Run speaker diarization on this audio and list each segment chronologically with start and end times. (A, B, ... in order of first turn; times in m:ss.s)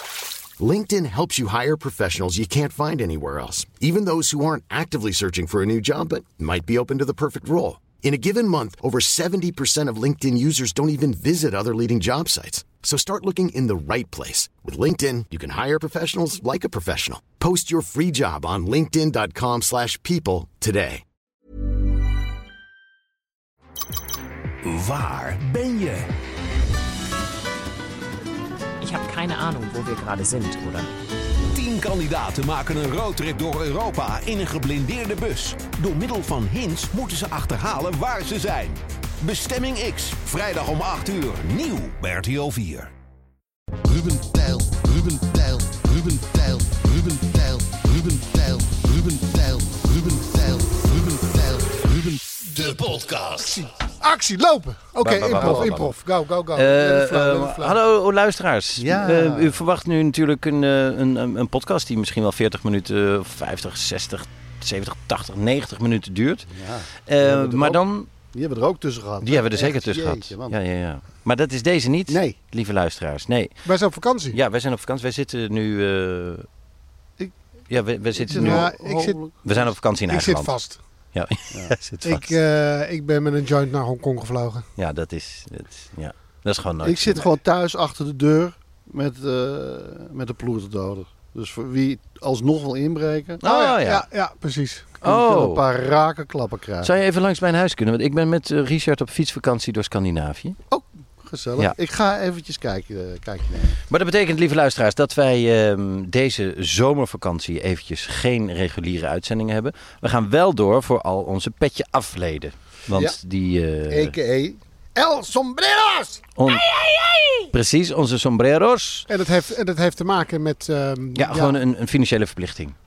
0:00.6-0:21.0 A
0:24.6-0:26.1 B
0:28.8-0:30.9 C
0:31.5-0:42.9 B
0:47.5-0:47.8 B
0:52.6-0:53.4 D
0:53.4-0:57.8 E
0:55.0-0:56.0 D
0:55.3-0:55.7 F
0:56.5-1:06.5 D
0:58.8-0:59.6 F
1:06.5-1:10.6 F
1:07.1-1:08.1 D
1:09.2-1:13.6 D
1:12.1-1:12.4 F
1:13.6-1:14.4 E
1:14.3-1:16.5 D
1:17.7-1:18.7 D
1:18.1-1:19.7 F
1:18.5-1:19.3 E
1:19.3-1:20.6 D
1:20.1-1:20.8 E
1:21.1-1:22.4 D
1:22.0-1:24.7 E
1:24.8-1:27.3 D
1:26.8-1:33.4 F
1:33.4-1:34.1 D
1:33.4-1:35.0 E
1:35.0-1:36.9 F
1:35.0-1:35.6 D
1:36.8-1:40.6 D
1:40.7-1:43.8 F
1:43.9-1:54.2 D
1:52.9-1:53.2 F
1:53.9-1:56.3 F
1:56.4-1:56.7 D
1:56.7-1:57.4 E
1:57.5-1:59.1 D
1:59.1-2:01.6 E
2:01.2-2:02.8 D